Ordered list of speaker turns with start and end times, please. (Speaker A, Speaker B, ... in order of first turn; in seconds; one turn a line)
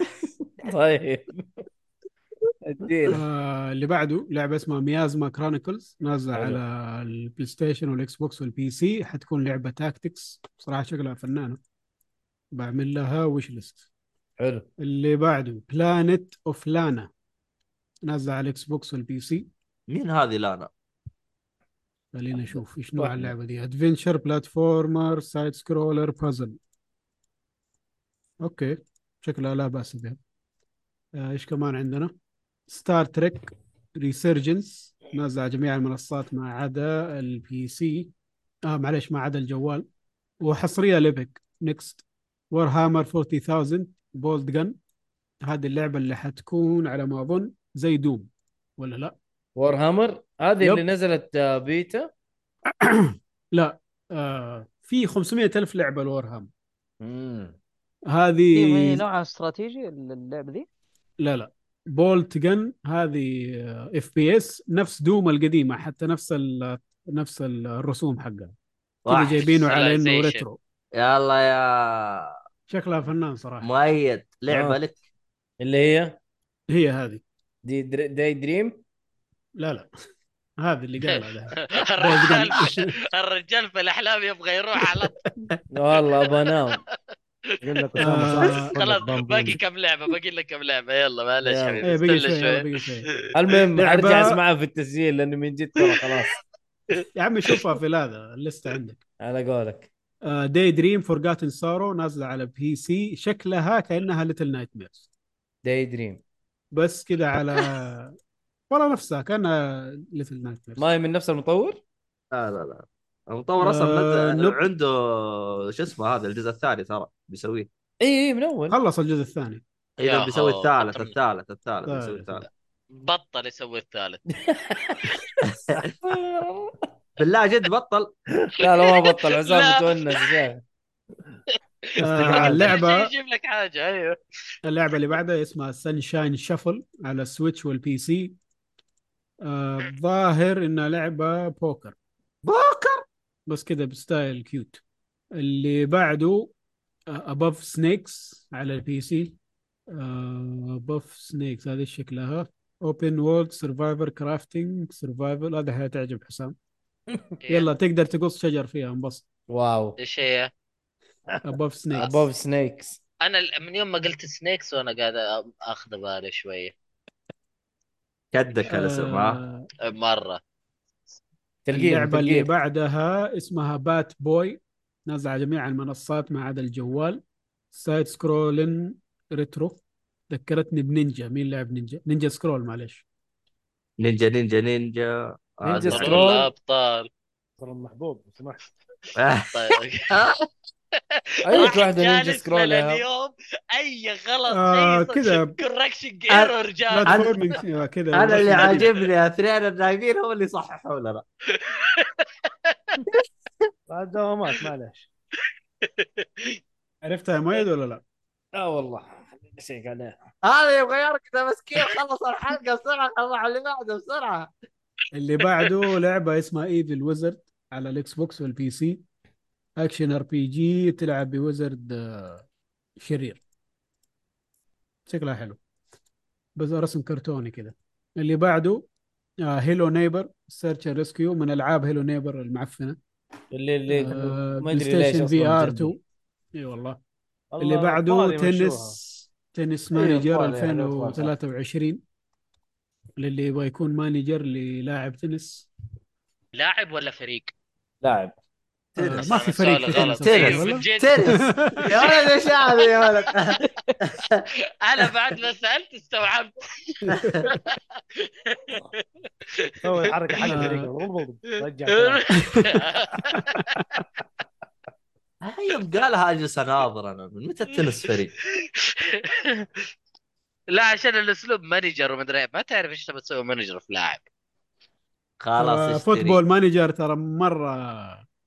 Speaker A: 0.4-1.6
Speaker A: 2.6-3.2
Speaker B: 3.1-11.6
Speaker A: 6.3-6.6
Speaker B: 12.5-13.8
Speaker A: 14.4-14.7
Speaker B: 14.8-17.1
Speaker B: 18.1-19.5
Speaker C: 19.9-20.7
Speaker B: 22.1-26.6
Speaker A: 22.4-23.3
Speaker B: 28.4-30.2
Speaker B: 31.1-32.1
Speaker B: 32.7-38.1
Speaker B: 38.7-39.9
Speaker B: 40.4-44.8
Speaker B: 45.4-49.1
Speaker A: 49.5-52.1
Speaker B: 50.6-50.9
Speaker B: 52.8-56.5
Speaker A: 57.0-57.5
Speaker B: 58.1-59.0
Speaker D: 58.5-60.6
Speaker B: 61.2-68.5
Speaker C: 69.0-69.6
Speaker B: 69.1-70.6
Speaker E: 69.7-70.4
Speaker C: 70.9-72.4
Speaker B: 72.7-73.7
Speaker C: 73.6-75.0
Speaker A: 74.5-74.8
Speaker A: 75.6-76.2
Speaker B: 76.7-77.2
Speaker A: 77.6-78.8
Speaker B: 79.6-79.9
Speaker B: 80.6-82.9
Speaker E: 81.0-85.1
Speaker B: 84.8-85.1
Speaker A: 85.7-86.8
Speaker E: 86.5-86.8
Speaker F: 87.6-89.6
Speaker B: 88.0-88.7
Speaker A: 88.1-89.6
Speaker E: 88.7-92.7
Speaker A: 91.4-91.8
Speaker B: 91.8-93.1
Speaker A: 93.3-96.3
Speaker B: 93.8-94.4
Speaker E: 96.9-97.6
Speaker B: 97.1-99.0
Speaker A: 99.2-99.9
Speaker B: 100.2-105.0
Speaker A: 105.6-106.2
Speaker B: 106.7-108.1
Speaker B: 108.7-110.8
Speaker A: 110.8-111.8
Speaker C: 112.3-117.7
Speaker B: 113.6-114.6
Speaker A: 118.0-118.8
Speaker B: 118.7-119.6
Speaker C: 120.0-122.5
Speaker E: 120.0-121.1
Speaker B: 121.9-122.4
Speaker E: 122.9-124.2
Speaker A: 124.4-125.2
Speaker C: 125.4-125.9
Speaker A: 126.0-126.8
Speaker C: 127.2-128.1
Speaker A: 128.6-130.6
Speaker E: 128.7-130.3
Speaker E: 131.9-134.2
Speaker B: 132.0-133.1
Speaker B: 134.6-138.3
Speaker B: 139.4-141.9
Speaker C: 142.4-143.0
Speaker B: 143.5-144.8
Speaker B: 145.4-146.5
Speaker B: 147.1-149.3
Speaker B: 149.9-156.5
Speaker E: 157.4-157.7
Speaker B: 157.5-159.2
Speaker A: 159.5-160.0
Speaker E: 160.0-160.5
Speaker F: 161.3-161.6
Speaker B: 161.4-162.2
Speaker A: 162.0-163.0
Speaker E: 163.2-166.7
Speaker C: 168.3-169.4
Speaker B: 168.7-169.7
Speaker E: 169.8-170.4
Speaker A: 171.7-172.5
Speaker B: 171.7-177.2
Speaker B: 177.7-183.0
Speaker C: 184.0-186.3
Speaker A: 185.6-186.5
Speaker E: 185.9-187.1
Speaker F: 187.6-188.7
Speaker C: 189.2-190.5
Speaker E: 189.5-190.2
Speaker A: 191.4-193.0
Speaker E: 191.5-197.6
Speaker B: 194.5-195.5
Speaker B: 196.9-198.9
Speaker C: 197.0-197.3
Speaker C: 198.1-201.2
Speaker E: 198.6-198.9
Speaker E: 201.5-203.0
Speaker F: 203.9-205.1
Speaker E: 205.8-206.6
Speaker B: 207.0-208.0
Speaker A: 208.6-210.2
Speaker C: 210.4-214.5
Speaker B: 215.1-219.0
Speaker B: 219.8-222.4
Speaker B: 223.0-223.4
Speaker B: 225.1-225.6
Speaker B: 226.6-228.9
Speaker B: 229.4-233.0
Speaker A: 233.5-235.9
Speaker B: 233.9-236.0
Speaker B: 236.6-237.0
Speaker F: 237.5-239.0
Speaker B: 237.6-242.0
Speaker A: 239.9-241.3
Speaker B: 243.2-245.7
Speaker E: 246.5-247.5
Speaker A: 248.0-248.3
Speaker C: 248.9-249.3
Speaker B: 249.0-252.1
Speaker E: 249.2-253.6
Speaker C: 250.2-254.5
Speaker E: 254.8-259.0
Speaker C: 257.1-257.5
Speaker B: 257.1-257.5
Speaker E: 259.6-260.7
Speaker F: 259.8-262.5
Speaker B: 260.4-260.9
Speaker E: 261.9-263.8
Speaker C: 265.4-268.3
Speaker E: 268.6-269.7
Speaker E: 270.7-274.2
Speaker C: 275.4-276.4
Speaker B: 275.6-278.2